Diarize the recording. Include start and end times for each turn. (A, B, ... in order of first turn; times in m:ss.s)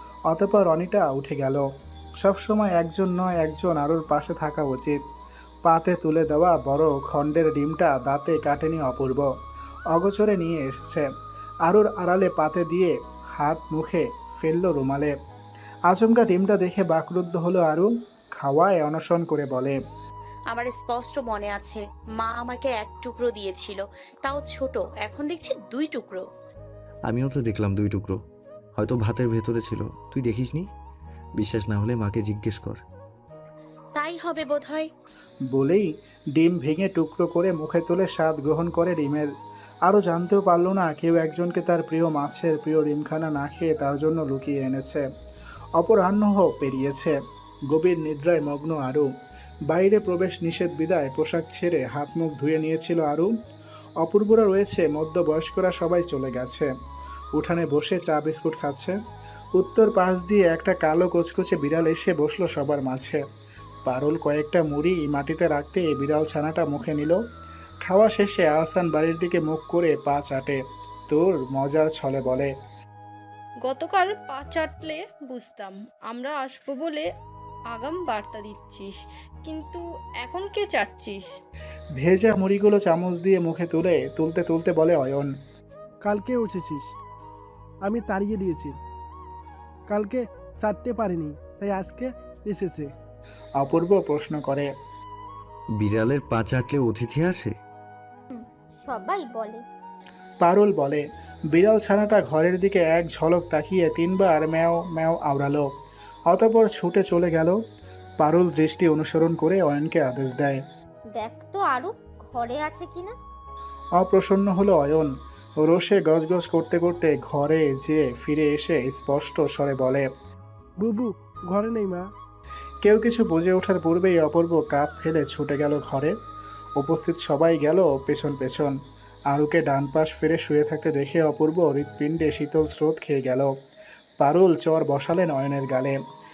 0:00.3-0:01.6 A
0:02.2-0:05.0 A
0:05.7-0:09.3 A
0:09.9-0:11.1 A
0:11.7-0:15.1 A
0:15.9-0:19.8 A
0:20.5-0:26.3 B
0:27.1-0:28.2 C
0:28.8-0:30.7 C
0:31.4-0:32.8 C
0:34.0-0:34.9 B
0:35.5-0:39.3 A
0:39.9-0:45.0 A
0:45.8-0:47.1 A
0:47.7-0:49.1 A
0:49.7-0:53.3 A
0:54.0-0:56.7 A
0:57.4-0:59.0 A
0:59.6-1:03.2 A
1:03.9-1:07.2 A
1:07.9-1:10.6 A
1:11.1-1:12.5 A
1:13.6-1:17.1 D
1:17.7-1:21.3 D
1:22.0-1:25.3 A
1:26.0-1:26.9 E
1:27.8-1:28.7 E
1:29.9-1:32.9 E
1:33.6-1:34.7 A
1:35.8-1:37.5 C
1:38.3-1:39.6 F
1:40.4-1:41.0 A
1:41.5-1:45.6 A
1:46.3-1:47.6 A
1:48.2-1:50.6 A
1:51.2-1:53.2 F
1:54.0-1:55.1 A
1:55.6-2:00.0 A
2:00.8-2:02.0 E
2:02.8-2:06.1 A
2:06.8-2:08.8 A
2:09.3-2:13.5 A
2:14.2-2:16.0 A